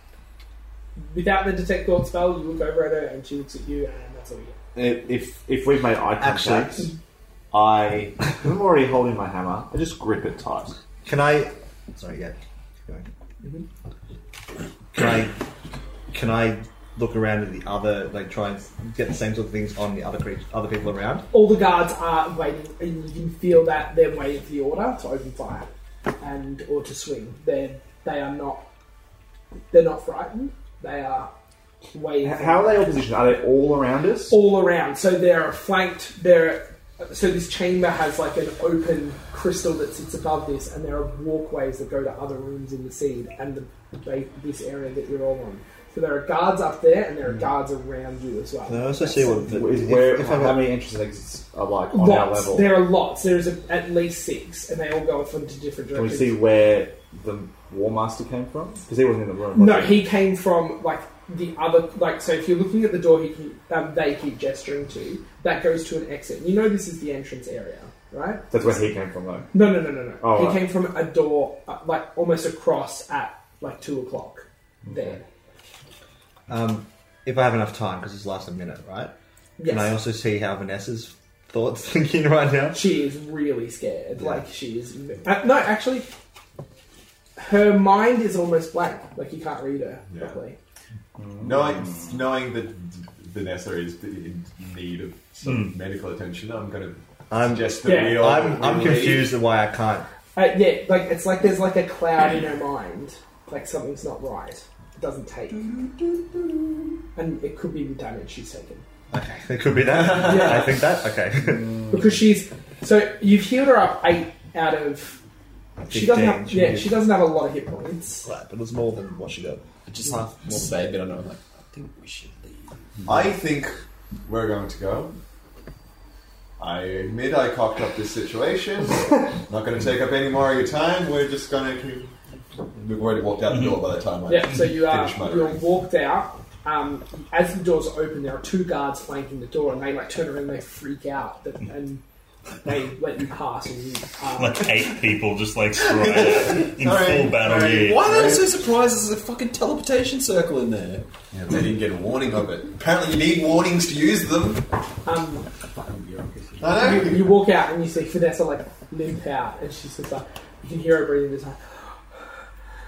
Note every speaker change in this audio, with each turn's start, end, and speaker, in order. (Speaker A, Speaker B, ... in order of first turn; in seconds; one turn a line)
Speaker A: 1.0-4.6
Speaker B: 4.8-6.9
Speaker C: 6.2-6.9
Speaker B: 7.5-10.8
Speaker C: 11.1-12.3
Speaker C: 14.9-15.4
Speaker C: 16.1-21.3
Speaker A: 21.3-25.7
Speaker A: 26.2-28.7
Speaker A: 29.7-31.3
Speaker A: 31.9-32.8
Speaker B: 32.2-34.4
Speaker A: 34.3-49.5
Speaker C: 48.7-50.8
Speaker B: 49.5-52.8
Speaker A: 51.9-56.4
Speaker B: 55.9-60.0
Speaker A: 59.5-68.9
Speaker B: 68.5-69.6
Speaker A: 69.5-75.2
Speaker B: 70.2-70.6
Speaker C: 76.5-79.1
Speaker A: 79.6-80.0
Speaker C: 79.7-82.8
Speaker A: 82.7-86.1
Speaker A: 87.4-90.6
Speaker D: 90.1-90.4
Speaker D: 91.4-99.4
Speaker E: 95.5-95.7
Speaker C: 97.3-100.1
Speaker A: 97.8-98.3
Speaker A: 100.3-105.7
Speaker A: 107.2-108.8
Speaker C: 109.1-111.7
Speaker D: 110.0-110.4
Speaker A: 110.2-110.7
Speaker B: 111.5-111.9
Speaker A: 111.9-115.2
Speaker A: 115.9-118.3
Speaker C: 115.9-117.0
Speaker C: 118.2-119.6
Speaker F: 119.9-122.8
Speaker D: 123.1-125.2
Speaker D: 126.6-132.1
Speaker D: 132.8-135.6
Speaker A: 134.3-142.0
Speaker A: 142.6-144.7
Speaker E: 144.4-148.3
Speaker D: 145.8-148.4
Speaker F: 147.6-151.1
Speaker D: 151.3-154.7
Speaker A: 155.1-155.5
Speaker D: 156.6-157.4
Speaker A: 156.8-162.0